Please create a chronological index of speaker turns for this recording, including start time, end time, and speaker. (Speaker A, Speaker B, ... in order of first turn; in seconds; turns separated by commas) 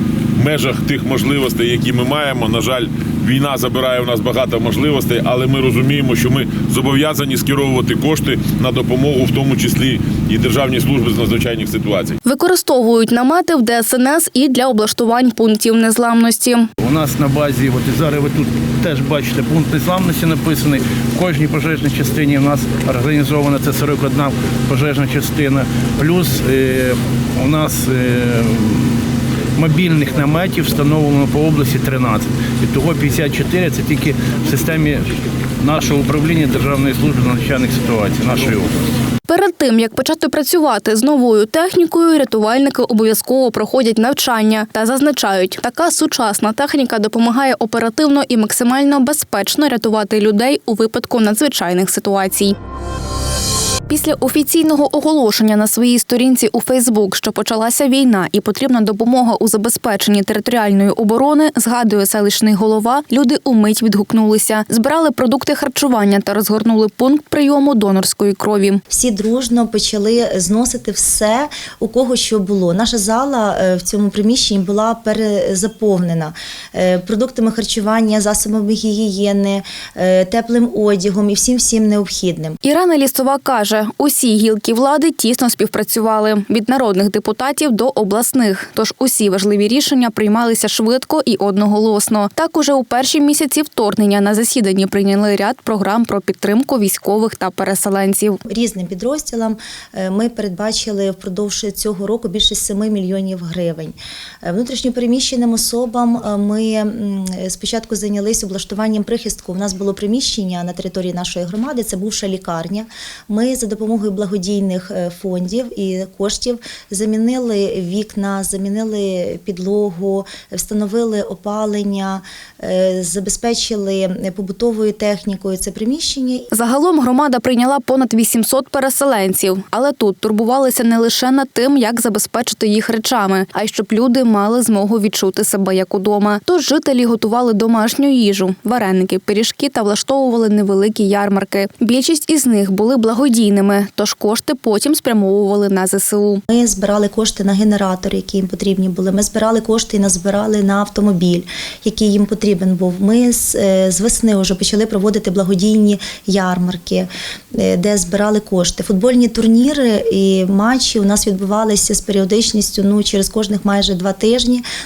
Speaker A: 0.4-12.2, Speaker B: 12.2-16.7, Speaker C: 16.8-29.0, Speaker C: 29.6-38.7, Speaker B: 39.3-52.6, Speaker B: 53.9-68.8, Speaker D: 68.9-82.6, Speaker B: 82.6-98.4, Speaker D: 98.5-126.5, Speaker B: 126.5-146.4, Speaker D: 146.5-164.6